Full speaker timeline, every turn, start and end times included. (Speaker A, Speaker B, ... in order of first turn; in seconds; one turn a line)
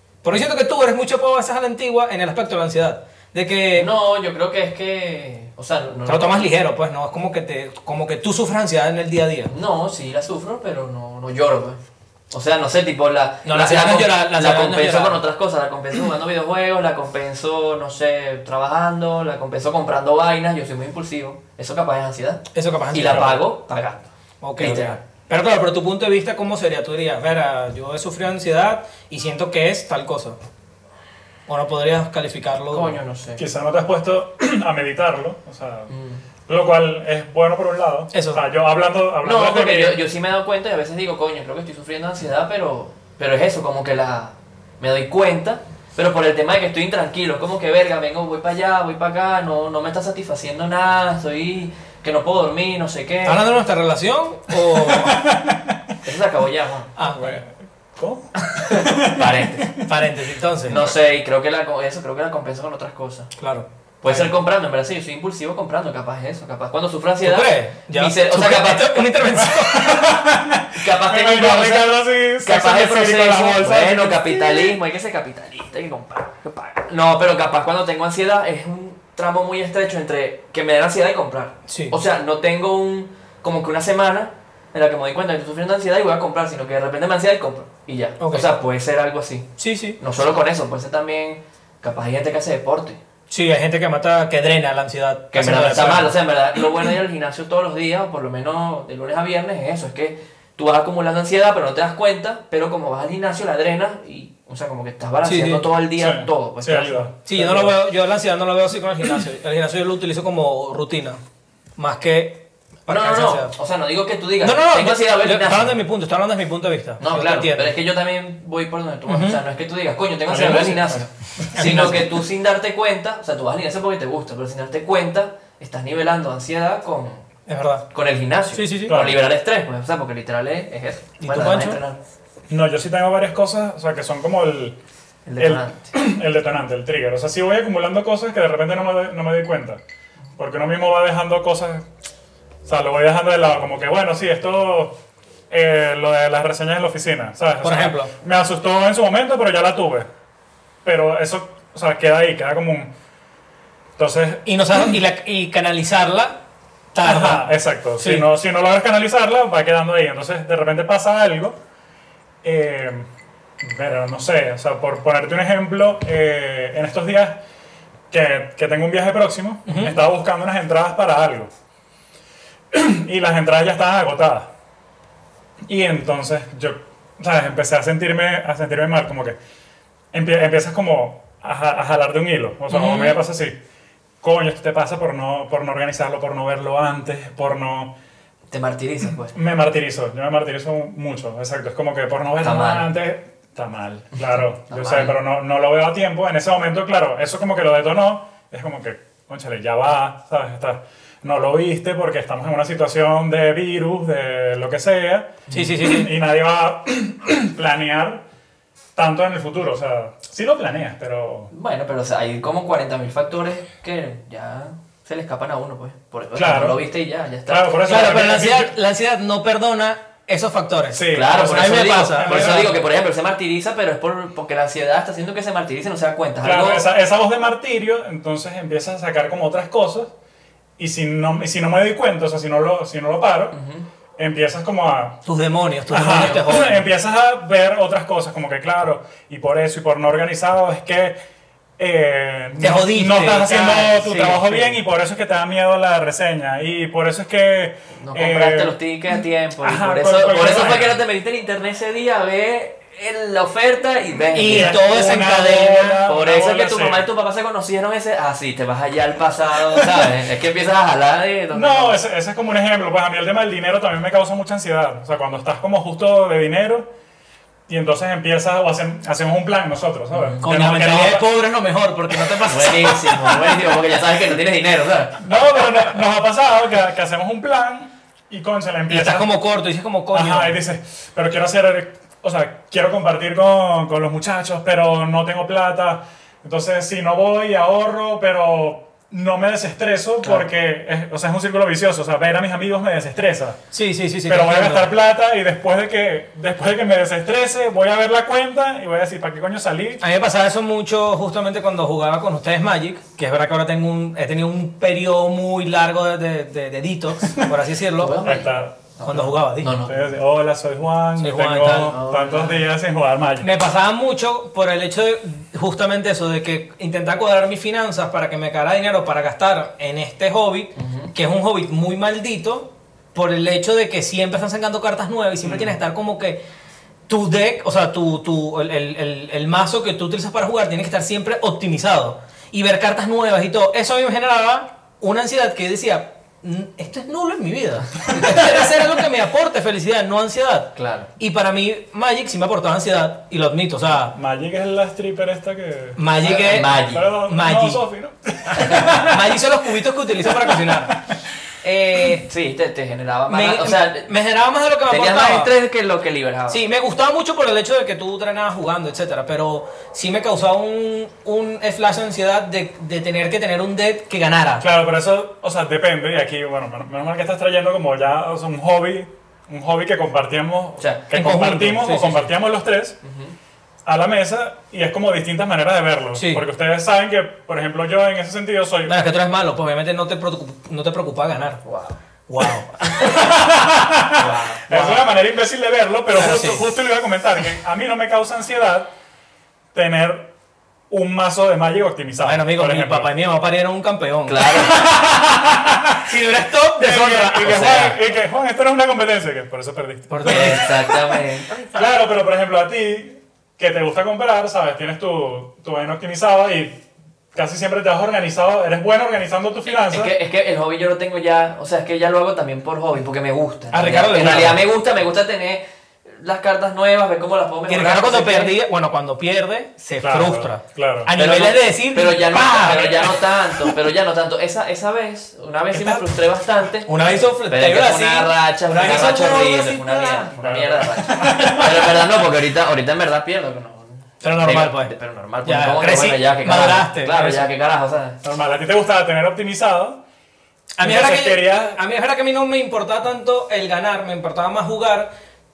Speaker A: 0.2-3.9
Speaker B: 3.8-6.5
Speaker A: 6.1-9.5
Speaker B: 9.5-11.8
Speaker B: 12.3-25.0
Speaker A: 13.4-15.2
Speaker A: 22.5-23.4
Speaker A: 24.4-30.4
Speaker A: 31.5-33.0
Speaker B: 32.7-33.4
Speaker C: 33.4-35.9
Speaker B: 35.9-36.2
Speaker C: 36.5-40.0
Speaker A: 38.1-38.4
Speaker B: 39.2-53.4
Speaker A: 53.2-55.2
Speaker C: 54.7-55.9
Speaker B: 56.0-56.9
Speaker A: 57.0-57.4
Speaker C: 57.1-59.9
Speaker B: 58.5-59.8
Speaker A: 59.9-60.9
Speaker B: 60.7-63.3
Speaker A: 63.4-63.7
Speaker B: 64.0-69.2
Speaker C: 64.1-64.3
Speaker A: 67.2-70.1
Speaker C: 69.4-74.8
Speaker B: 70.8-93.0
Speaker A: 81.7-82.0
Speaker A: 88.2-88.5
Speaker A: 89.6-90.0
Speaker A: 93.3-96.1
Speaker B: 95.3-107.2
Speaker C: 95.7-96.0
Speaker A: 105.2-105.7
Speaker C: 106.0-107.7
Speaker A: 107.3-111.2
Speaker A: 111.8-113.5
Speaker B: 112.9-115.8
Speaker A: 114.4-117.7
Speaker B: 117.0-127.2
Speaker A: 119.1-119.4
Speaker C: 120.3-122.0
Speaker A: 121.5-122.1
Speaker A: 127.5-127.8
Speaker B: 127.9-132.0
Speaker A: 128.5-129.0
Speaker C: 128.9-129.2
Speaker A: 131.2-131.8
Speaker C: 132.5-134.8
Speaker B: 135.3-135.9
Speaker C: 135.4-139.8
Speaker C: 140.4-141.8
Speaker C: 142.7-145.0
Speaker C: 145.5-150.1
Speaker A: 147.6-148.1
Speaker C: 150.8-152.9
Speaker C: 154.0-154.5
Speaker A: 154.4-156.4
Speaker A: 156.9-158.3
Speaker C: 157.0-161.6
Speaker C: 162.4-163.1
Speaker C: 163.6-167.4
Speaker C: 168.1-171.5
Speaker A: 169.7-170.0
Speaker C: 172.7-174.5
Speaker C: 175.7-179.4
Speaker C: 180.1-183.6
Speaker B: 182.7-183.2
Speaker C: 184.2-187.9
Speaker B: 188.5-189.3
Speaker C: 189.3-208.2
Speaker B: 192.4-192.9
Speaker B: 194.7-195.2
Speaker A: 205.5-206.1
Speaker C: 209.0-211.5
Speaker B: 211.5-217.8
Speaker C: 216.4-216.8
Speaker C: 217.5-218.7
Speaker A: 217.8-222.7
Speaker C: 220.9-222.9
Speaker B: 221.1-226.9
Speaker C: 226.4-230.1
Speaker C: 230.8-233.6
Speaker B: 233.5-233.9
Speaker C: 234.2-235.2
Speaker A: 235.2-236.9
Speaker C: 235.9-241.2
Speaker B: 236.1-236.5
Speaker C: 241.8-248.8
Speaker A: 242.6-244.8
Speaker B: 248.0-254.8
Speaker C: 249.6-251.0
Speaker A: 254.3-256.0
Speaker C: 254.5-257.1
Speaker B: 256.1-262.0
Speaker C: 259.8-260.1
Speaker C: 261.5-266.9
Speaker C: 267.7-271.3
Speaker B: 270.1-270.4
Speaker A: 270.4-273.3
Speaker B: 272.5-275.2
Speaker C: 275.2-279.3
Speaker A: 278.9-280.6
Speaker C: 280.1-293.6
Speaker A: 293.7-294.9
Speaker C: 294.3-300.0
Speaker A: 300.0-308.2
Speaker C: 307.2-307.5
Speaker B: 308.0-310.0
Speaker C: 308.2-308.8
Speaker A: 309.0-309.7
Speaker C: 309.8-313.5
Speaker A: 311.2-312.0
Speaker B: 311.8-312.6
Speaker A: 313.4-326.4
Speaker B: 320.8-321.1
Speaker B: 325.4-325.7
Speaker A: 327.1-344.1
Speaker B: 340.8-341.1
Speaker C: 344.1-349.4
Speaker A: 346.0-347.8
Speaker B: 346.2-347.1
Speaker A: 348.5-351.0
Speaker B: 348.6-348.9
Speaker C: 350.2-351.2
Speaker A: 351.6-352.3
Speaker B: 352.2-354.1
Speaker A: 353.3-355.5
Speaker B: 354.9-356.6
Speaker A: 356.5-364.7
Speaker C: 364.6-373.0
Speaker A: 371.1-372.3
Speaker B: 373.0-373.4
Speaker C: 373.9-379.0
Speaker A: 376.1-376.4
Speaker A: 378.9-381.6
Speaker B: 381.6-382.0
Speaker A: 382.3-383.3
Speaker C: 383.0-388.9
Speaker B: 384.1-384.7
Speaker A: 384.7-385.0
Speaker A: 386.1-386.6
Speaker C: 389.7-390.3
Speaker C: 390.9-393.1
Speaker A: 392.2-394.7
Speaker B: 394.3-394.9
Speaker C: 394.7-396.0
Speaker A: 396.0-397.9
Speaker C: 396.8-401.2
Speaker B: 397.4-398.0
Speaker A: 400.1-400.8
Speaker B: 400.2-401.5
Speaker C: 401.7-406.8
Speaker C: 407.3-410.1
Speaker B: 409.7-418.6
Speaker A: 413.7-414.6
Speaker C: 414.2-414.6
Speaker A: 417.7-423.7
Speaker C: 420.0-421.1
Speaker B: 421.2-426.9
Speaker C: 422.6-423.1
Speaker C: 425.7-426.1
Speaker A: 426.9-430.3
Speaker B: 427.5-438.2
Speaker C: 430.3-432.1
Speaker A: 431.2-431.7
Speaker A: 434.2-434.9
Speaker A: 435.4-437.4
Speaker C: 438.2-440.0
Speaker A: 440.8-445.1
Speaker C: 440.8-441.8